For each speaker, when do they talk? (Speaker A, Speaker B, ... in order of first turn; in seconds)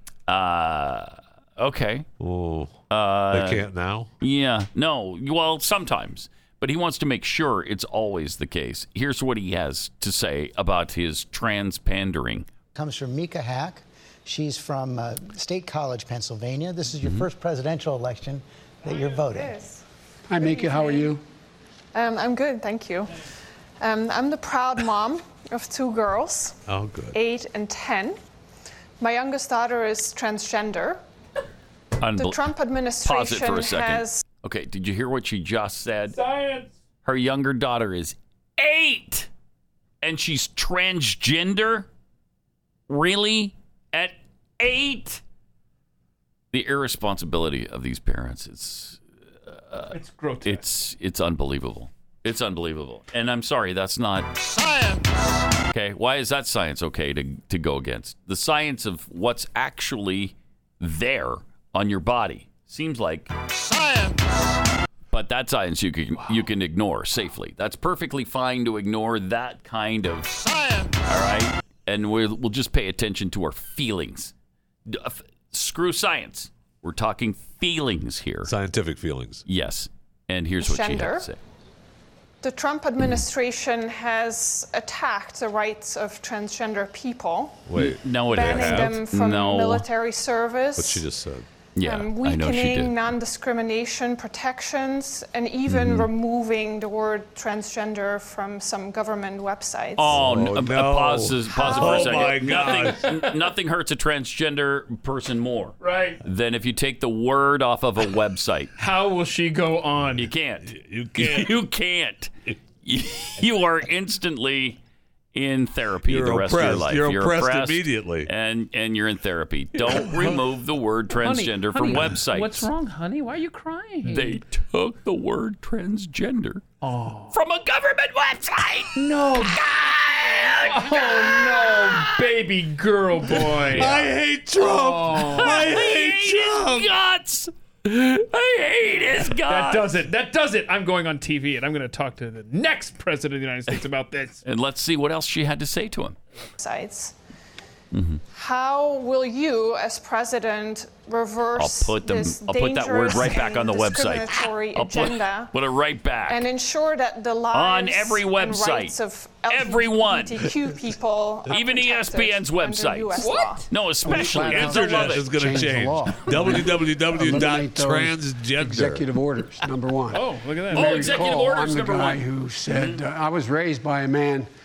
Speaker A: 0.3-2.1, 2.9-3.6, 4.2-12.5, 17.0-17.3, 32.0-36.2, 37.0-39.3, 40.0-41.9, 42.9-45.2, 46.5-54.4, 55.7-63.4, 65.1-70.4, 71.0-74.3, 74.9-78.5, 79.5-81.4, 87.8-89.9, 91.8-93.0, 95.7-96.1, 100.0-108.7, 110.2-112.3, 112.8-114.8, 115.3-122.7, 124.1-126.6, 127.3-132.2, 133.8-134.1, 135.1-140.0, 144.4-146.2, 147.9-148.2, 151.6-156.5, 157.5-160.5, 161.5-165.4, 170.7-173.0
Speaker B: 2.2-4.1, 26.7-27.2, 78.5-79.4, 87.7-89.0, 90.8-91.5, 100.0-103.0, 110.6-111.5, 116.0-118.3, 133.7-136.9, 164.1-169.1
Speaker C: 12.8-19.6
Speaker D: 18.8-19.8, 20.4-21.2, 21.9-23.2, 23.8-26.6, 27.1-28.2, 29.0-31.0, 32.2-34.2, 80.6-81.3, 82.4-87.6, 88.3-91.1, 91.8-100.1, 101.6-102.2, 146.6-147.2, 148.3-155.6, 156.3-163.7
Speaker E: 20.3-21.2, 164.0-174.5
Speaker F: 36.1-36.7, 49.9-50.6, 101.9-103.3, 105.8-106.2, 108.8-110.3, 121.2-124.4, 126.8-127.3, 128.9-129.6, 130.6-135.8, 139.3-144.4, 163.2-163.7, 170.1-171.4